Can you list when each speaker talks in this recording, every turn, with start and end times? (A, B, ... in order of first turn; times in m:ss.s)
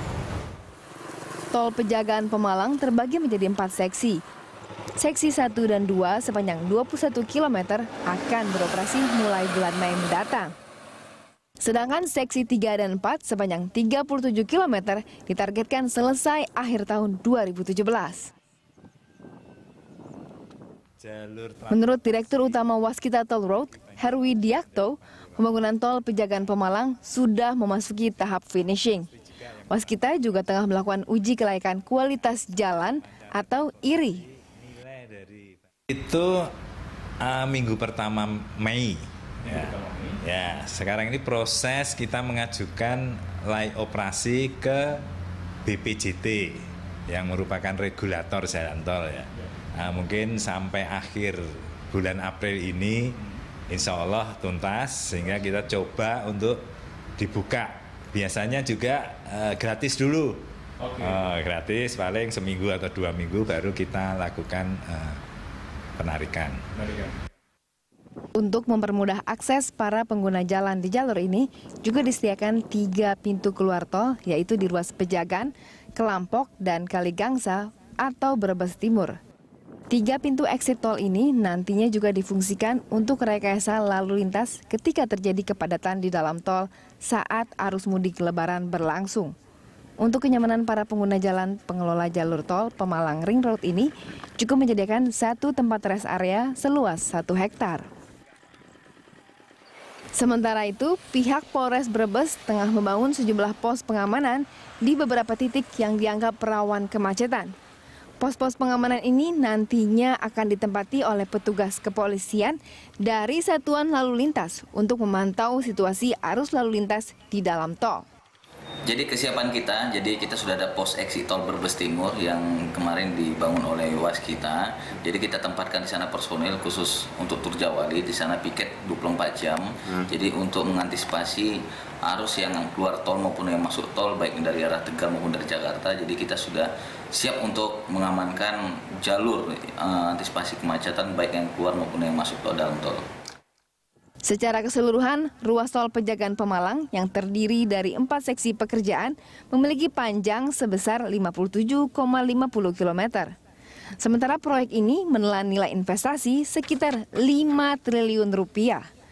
0:01.5-0:04.2 A
0:05.0-0:10.5 A
0:11.6-0:18.3 A
0:21.0-0:22.5 B
0:21.7-0:29.1 A
0:24.2-0:24.7 B
0:29.7-0:34.3 A
0:33.2-0:36.5 B
0:37.2-0:45.1 B
0:45.6-0:56.6 B
0:57.2-1:05.2 B
1:06.0-1:06.6 B
1:08.4-1:19.2 A
1:19.9-1:29.3 A
1:30.0-1:37.9 A
1:40.2-1:47.5 A
1:48.2-1:58.0 A
1:58.9-2:23.1 C
2:24.2-2:33.3 A
2:34.0-2:38.8 A